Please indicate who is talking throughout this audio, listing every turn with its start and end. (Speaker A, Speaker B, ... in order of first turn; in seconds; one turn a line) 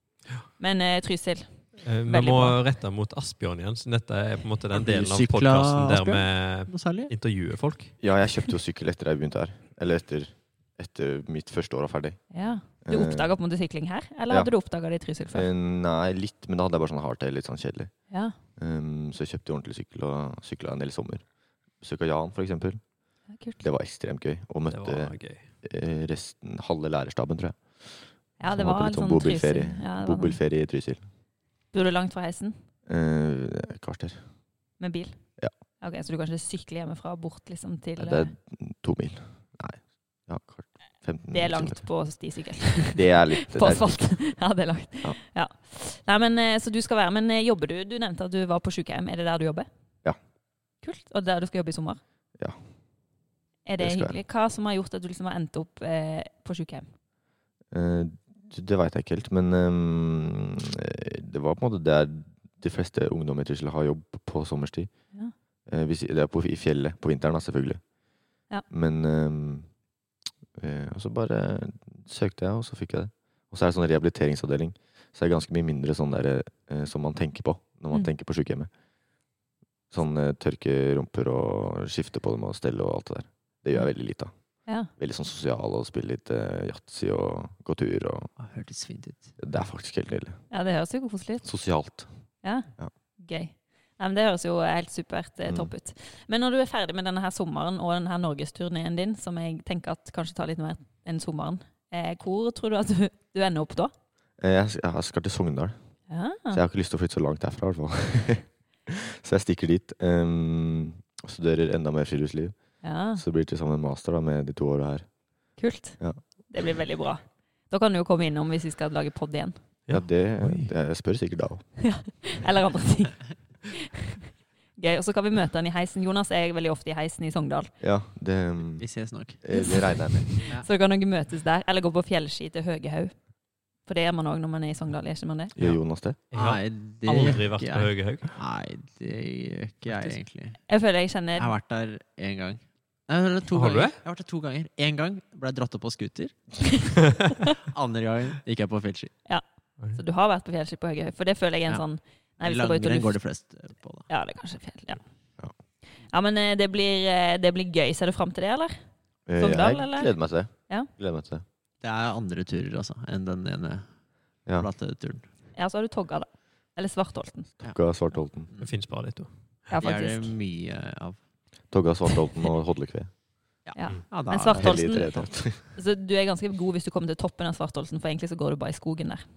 Speaker A: 0.6-2.6
Speaker B: 1.8-8.0
Speaker C: 4.7-7.1
Speaker D: 8.0-13.3
Speaker A: 12.3-15.5
Speaker D: 15.3-21.2
Speaker A: 18.1-18.4
Speaker D: 21.8-22.8
Speaker A: 23.3-23.6
Speaker D: 23.6-31.0
Speaker B: 24.7-25.5
Speaker A: 28.4-30.4
Speaker A: 31.7-32.5
Speaker D: 32.9-34.2
Speaker A: 34.8-35.2
Speaker A: 35.8-38.3
Speaker D: 38.0-41.8
Speaker A: 41.3-49.7
Speaker D: 42.9-44.2
Speaker A: 50.8-52.0
Speaker A: 53.6-56.9
Speaker D: 53.8-54.2
Speaker D: 57.7-64.9
Speaker D: 65.7-67.8
Speaker D: 68.7-69.7
Speaker D: 70.6-78.7
Speaker D: 79.9-88.3
Speaker A: 84.7-84.9
Speaker C: 88.4-89.3
Speaker D: 89.4-90.4
Speaker A: 90.5-91.4
Speaker D: 91.4-92.1
Speaker A: 92.4-103.9
Speaker D: 95.5-95.7
Speaker D: 104.4-105.8
Speaker A: 106.1-106.6
Speaker D: 106.5-115.2
Speaker A: 112.8-113.2
Speaker A: 115.6-119.6
Speaker B: 119.9-120.7
Speaker D: 119.9-121.8
Speaker A: 121.8-124.1
Speaker A: 124.7-127.7
Speaker D: 127.8-130.4
Speaker C: 128.8-130.7
Speaker A: 129.5-135.5
Speaker D: 135.6-136.2
Speaker B: 136.3-138.3
Speaker C: 136.3-140.7
Speaker B: 139.8-140.2
Speaker A: 140.7-141.5
Speaker C: 141.3-147.0
Speaker B: 143.5-144.0
Speaker C: 147.6-149.2
Speaker A: 149.2-153.2
Speaker C: 152.4-154.1
Speaker A: 154.1-155.0
Speaker A: 156.0-158.8
Speaker D: 159.2-161.4
Speaker A: 159.3-160.9
Speaker C: 161.8-165.2
Speaker A: 165.5-167.5
Speaker D: 167.6-168.5
Speaker C: 168.5-168.8
Speaker B: 168.6-169.7
Speaker A: 169.7-170.3
Speaker C: 169.8-171.2
Speaker D: 171.7-173.1
Speaker C: 173.6-175.2
Speaker A: 173.7-179.2
Speaker D: 174.4-175.6